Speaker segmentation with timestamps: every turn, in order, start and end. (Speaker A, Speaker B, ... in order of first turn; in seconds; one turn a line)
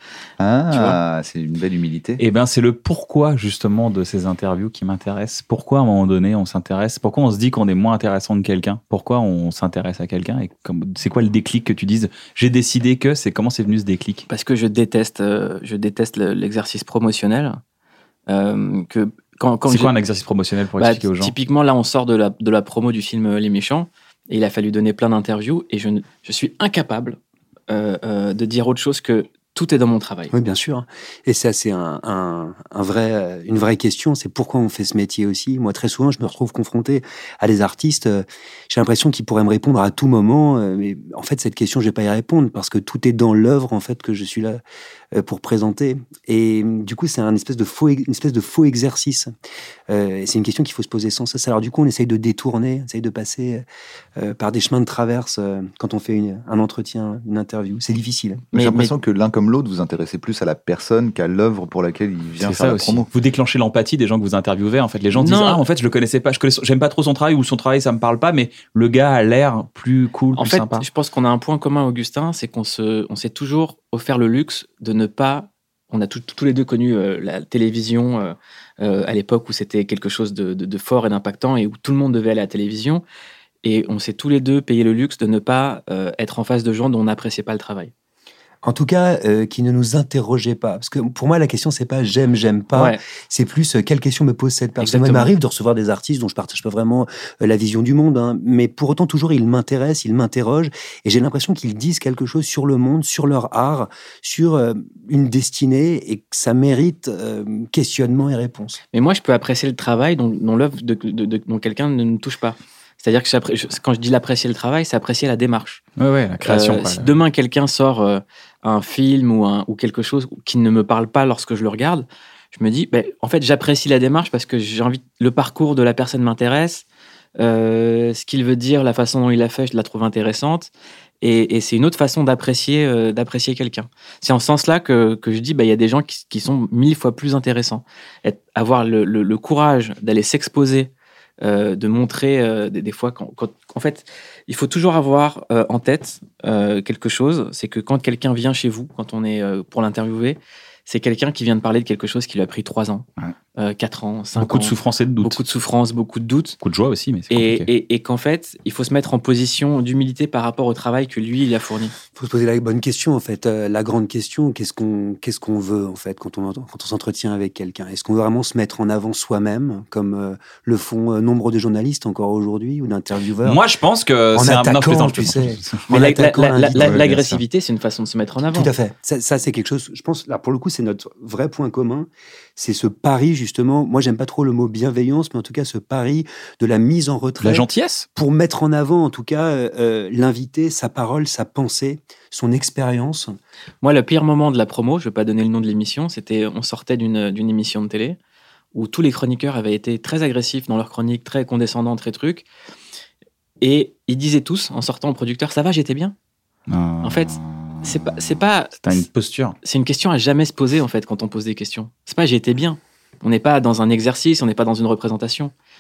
Speaker A: 0.4-2.2
Speaker B: 0.7-1.0
Speaker C: 2.2-14.2
Speaker B: 14.3-17.6
Speaker B: 18.3-19.9
Speaker C: 19.7-21.3
Speaker B: 20.8-27.2
Speaker B: 27.7-30.3
Speaker D: 30.3-44.6
Speaker D: 45.1-49.3
Speaker D: 49.9-53.6
Speaker D: 54.2-58.5
Speaker B: 58.5-58.9
Speaker A: 58.5-63.0
Speaker C: 62.4-70.8
Speaker B: 65.1-65.6
Speaker B: 70.3-83.0
Speaker B: 83.6-87.9
Speaker D: 88.6-108.8
Speaker B: 92.7-93.0
Speaker B: 94.8-95.3
Speaker B: 108.9-115.8
Speaker C: 116.0-117.1
Speaker B: 116.4-126.8
Speaker B: 127.4-130.7
Speaker B: 131.2-153.0
Speaker B: 153.6-156.6
Speaker C: 154.3-155.4
Speaker C: 156.6-157.7
Speaker B: 157.3-161.9
Speaker D: 162.1-173.6
Speaker C: 173.4-175.8
Speaker D: 174.3-177.2
Speaker B: 175.9-178.7
Speaker C: 176.7-177.4
Speaker D: 178.5-193.4
Speaker C: 187.4-188.1
Speaker B: 193.8-198.2
Speaker B: 198.7-202.4
Speaker B: 203.6-206.1
Speaker C: 206.7-209.6
Speaker B: 207.0-209.0
Speaker B: 209.6-215.5